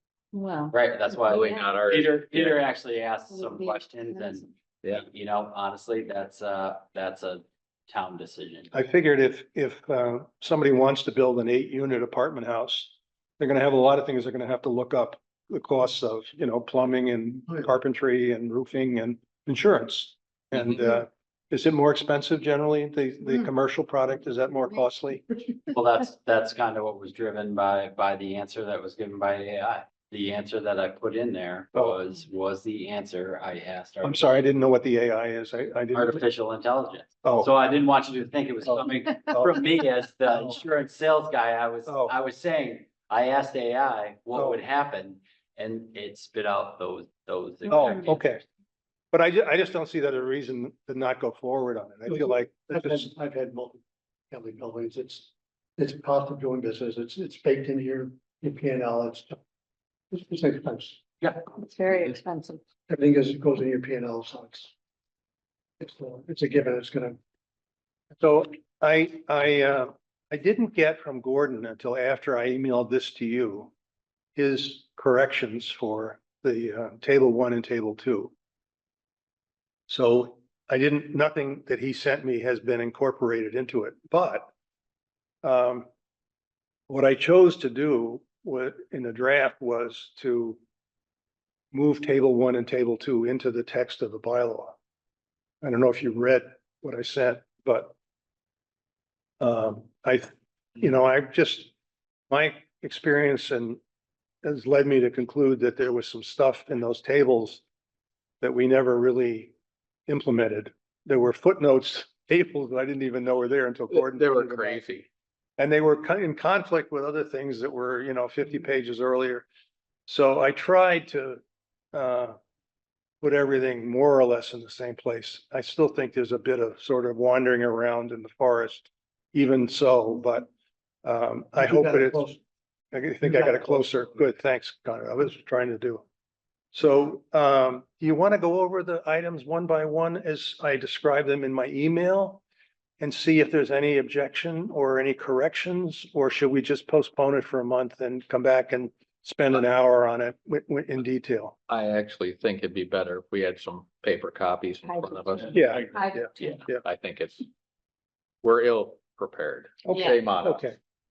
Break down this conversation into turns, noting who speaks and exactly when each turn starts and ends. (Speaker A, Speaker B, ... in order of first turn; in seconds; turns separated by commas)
Speaker A: 0.3-1.7, Speaker B: 0.7-8.7, Speaker C: 1.2-2.6, Speaker A: 3.3-4.4, Speaker D: 8.7-25.2, Speaker B: 25.7-34.3, Speaker D: 31.7-32.0, Speaker D: 34.0-36.2, Speaker B: 35.9-48.3, Speaker D: 37.2-37.5, Speaker D: 38.6-39.6, Speaker D: 40.3-40.6, Speaker D: 41.9-42.1, Speaker D: 44.3-44.6, Speaker D: 47.7-48.4, Speaker D: 49.1-53.1, Speaker E: 52.1-53.8, Speaker E: 54.3-59.4, Speaker E: 60.1-61.0, Speaker A: 61.6-62.6, Speaker E: 62.9-64.7, Speaker E: 65.8-67.2, Speaker D: 68.2-73.7, Speaker D: 74.3-78.3, Speaker D: 79.9-84.5, Speaker D: 85.4-85.9, Speaker D: 86.9-90.6, Speaker D: 91.7-94.7, Speaker D: 95.6-97.9, Speaker D: 99.4-101.7, Speaker D: 102.3-103.8, Speaker D: 104.4-107.6, Speaker D: 108.4-109.5, Speaker D: 110.1-114.9, Speaker C: 113.9-115.1, Speaker D: 115.6-119.5, Speaker D: 120.1-121.4, Speaker D: 121.9-122.3, Speaker D: 123.2-130.5, Speaker D: 131.0-132.3, Speaker E: 131.5-132.4, Speaker D: 132.9-136.0, Speaker E: 133.2-134.1, Speaker D: 136.7-142.4, Speaker D: 143.0-151.6, Speaker C: 151.7-157.4, Speaker A: 154.8-156.6, Speaker D: 155.5-156.8, Speaker C: 158.4-160.6, Speaker D: 159.8-160.8, Speaker A: 159.9-160.2